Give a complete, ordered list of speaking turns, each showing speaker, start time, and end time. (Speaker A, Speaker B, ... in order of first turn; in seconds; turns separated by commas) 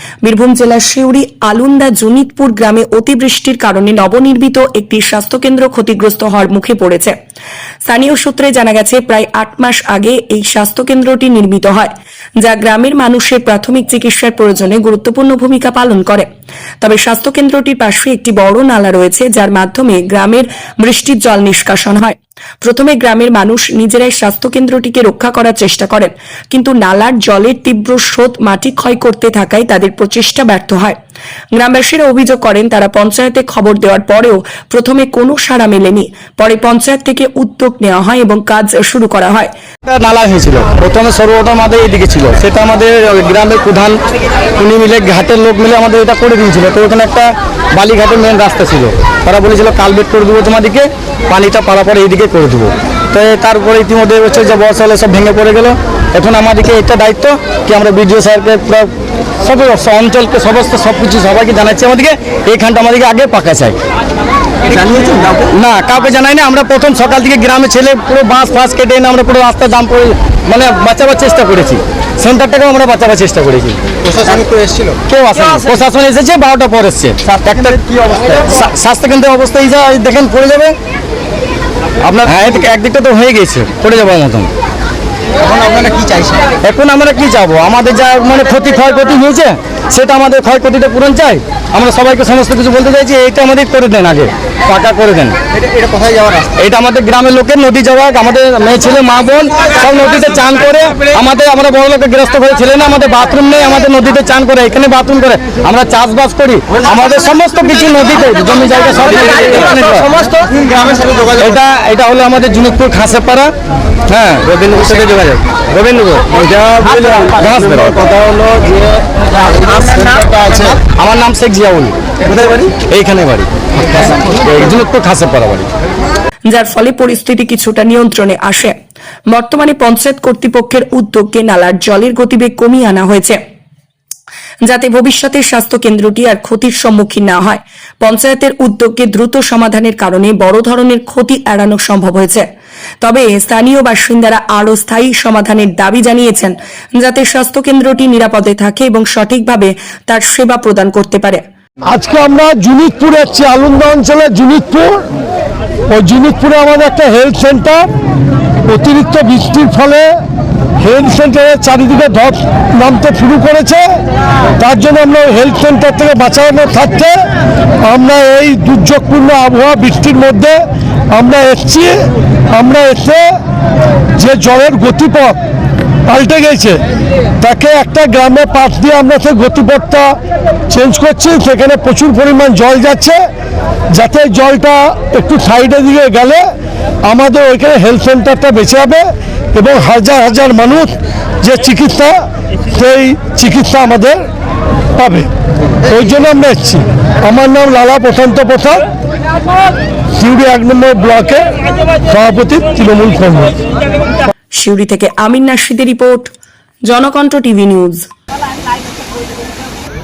Speaker A: 0.2-7.2, Speaker A: 7.9-16.3, Speaker A: 16.8-31.0, Speaker A: 31.5-39.5, Speaker B: 39.9-44.0, Speaker B: 44.6-63.8, Speaker B: 64.7-74.5, Speaker C: 64.9-65.5, Speaker C: 74.1-75.0, Speaker B: 75.1-80.8, Speaker C: 78.1-78.4, Speaker B: 82.0-84.5, Speaker C: 85.5-86.4, Speaker B: 86.6-95.4, Speaker C: 95.8-96.5, Speaker B: 96.5-110.2, Speaker C: 110.3-111.3, Speaker B: 111.3-113.5, Speaker B: 114.1-123.5, Speaker B: 124.0-125.7, Speaker A: 126.5-128.8, Speaker A: 129.3-133.4, Speaker A: 134.6-142.5, Speaker A: 143.0-151.4, Speaker D: 151.9-155.1, Speaker D: 155.9-157.9, Speaker D: 158.7-160.1, Speaker D: 160.8-164.0, Speaker D: 164.6-167.3, Speaker D: 167.8-173.4, Speaker D: 174.2-175.4, Speaker D: 176.1-176.8, Speaker D: 177.4-180.2, Speaker D: 180.7-183.2, Speaker D: 183.9-186.5, Speaker D: 187.1-194.2, Speaker D: 195.0-195.3, Speaker D: 195.8-198.8, Speaker D: 200.2-203.6, Speaker A: 204.5-206.3, Speaker A: 206.9-208.1